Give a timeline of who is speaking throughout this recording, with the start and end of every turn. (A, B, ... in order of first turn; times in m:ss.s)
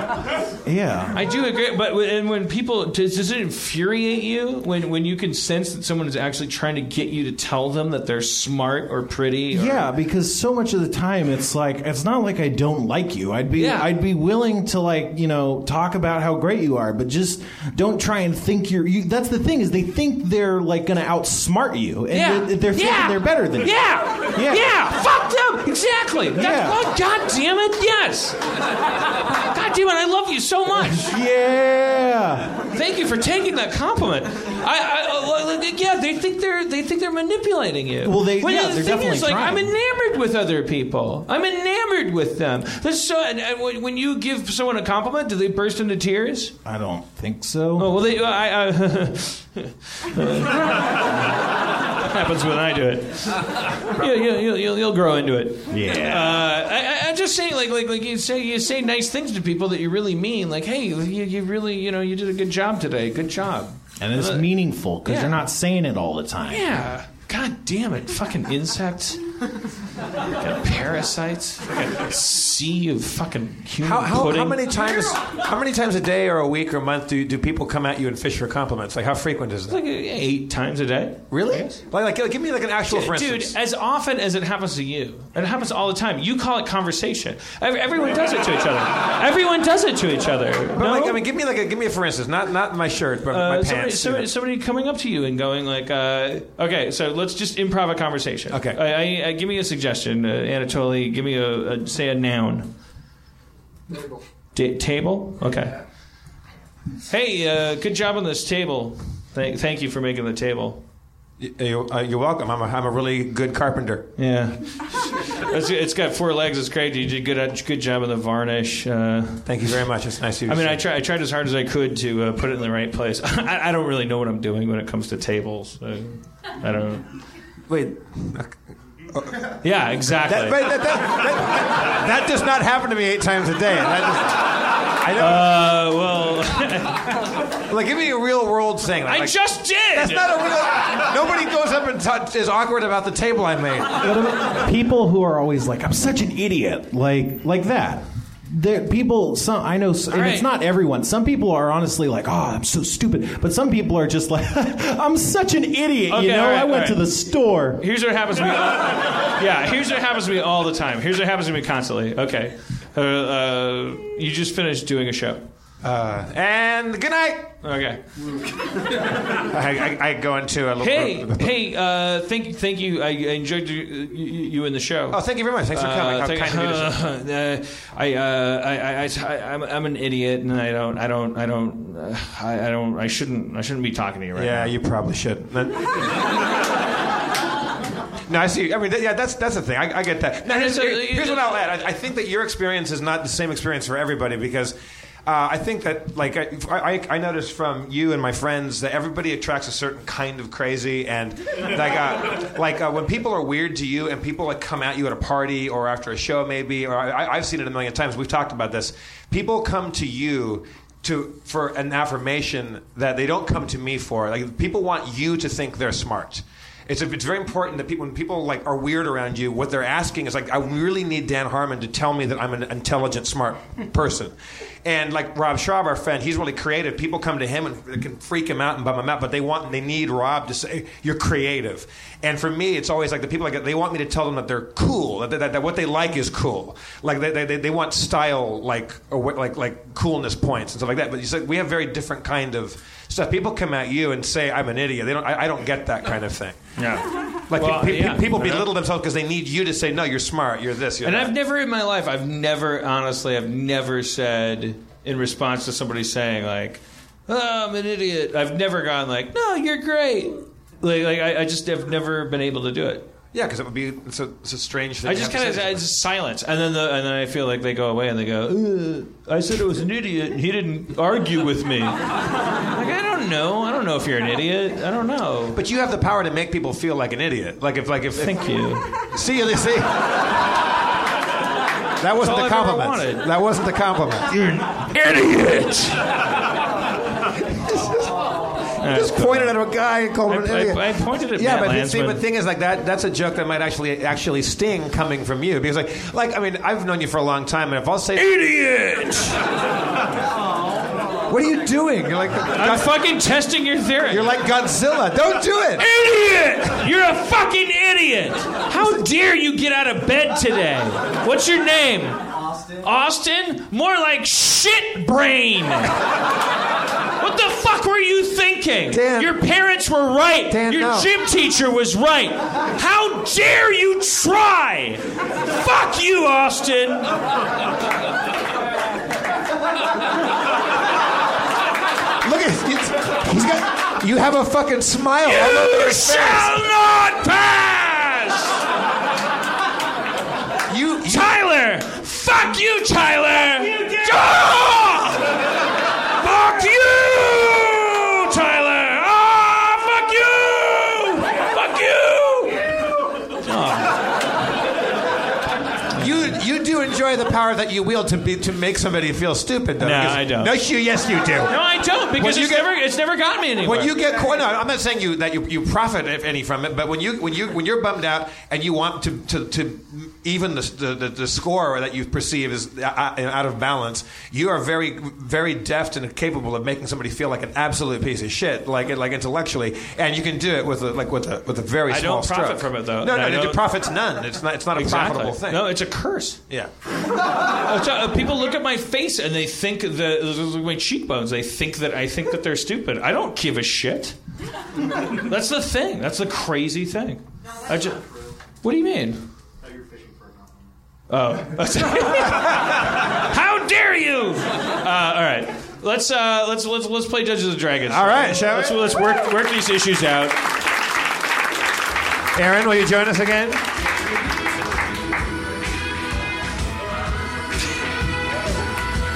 0:00.6-0:01.2 A
0:01.1-0:09.9 B
0:09.5-0:23.8 A
0:13.6-0:13.9 B
0:22.1-0:28.4 B
0:24.3-0:24.6 A
0:26.4-0:26.8 A
0:29.3-0:31.1 B
0:30.9-0:32.6 A
0:32.7-0:46.5 B
0:38.0-0:39.7 A
0:46.6-0:47.9 A
0:47.8-0:51.4 B
0:51.9-1:04.5 B
0:55.7-0:56.5 A
1:04.0-1:06.7 A
1:05.0-1:05.4 B
1:06.5-1:09.2 B
1:10.3-1:14.7 B
1:13.8-1:19.8 C
1:19.7-1:21.8 B
1:21.3-1:23.5 C
1:22.9-1:31.2 B
1:30.8-1:34.3 C
1:33.3-1:42.7 B
1:38.5-1:38.8 C
1:44.5-1:45.8 B
1:47.1-1:50.8 B
1:51.4-1:54.1 C
1:54.2-1:59.7 B
1:59.4-2:00.8 C
2:00.5-2:07.0 B
2:07.7-2:08.5 C
2:09.1-2:09.6 C
2:09.6-2:10.7 B
2:10.2-2:15.5 C
2:15.2-2:17.2 B
2:17.7-2:19.4 C
2:19.0-2:20.4 B
2:19.9-2:24.0 C
2:24.0-2:37.8 A
2:30.1-2:30.5 B
2:36.1-2:37.0 B
2:37.8-2:45.4 B
2:45.8-2:47.5 C
2:47.6-2:48.0 B
2:49.3-2:51.5 C
2:50.8-3:04.7 B
2:55.1-2:57.0 C
3:04.3-3:06.3 C
3:08.3-4:06.6 C
3:10.4-3:11.6 B
4:06.8-4:08.7 B
4:07.5-4:11.3 C
4:11.0-4:23.1 B
4:23.3-4:25.8 C
4:25.0-4:35.6 B
4:35.5-4:40.1 C
4:38.2-4:39.0 B
4:42.0-4:44.3 C
4:42.2-4:43.3 B
4:44.3-4:46.1 B
4:47.2-4:48.3 C
4:48.8-4:49.6 B
4:48.8-4:58.2 C
4:50.3-4:52.2 B
4:58.2-4:59.4 B
5:01.3-5:02.9 C
5:02.5-5:04.3 B
5:04.1-5:05.8 C
5:05.8-5:16.0 B
5:17.2-5:27.2 B
5:18.9-5:19.3 C
5:20.5-5:21.1 C
5:32.2-5:36.6 C
5:35.2-5:38.6 B
5:40.7-5:41.3 C
5:41.0-5:45.4 B
5:46.2-5:52.6 B
5:53.4-5:54.0 B
5:55.9-6:01.5 C
5:56.0-5:56.3 B
5:59.8-6:00.6 B
6:01.4-6:03.9 B
6:02.2-6:02.7 C
6:03.6-6:25.7 C
6:21.9-6:23.7 B
6:24.7-6:26.4 B
6:27.5-6:34.2 B
6:35.0-6:38.0 B
6:38.6-6:39.2 B
6:41.1-6:50.4 B
6:47.9-6:49.0 C
6:52.3-6:53.6 C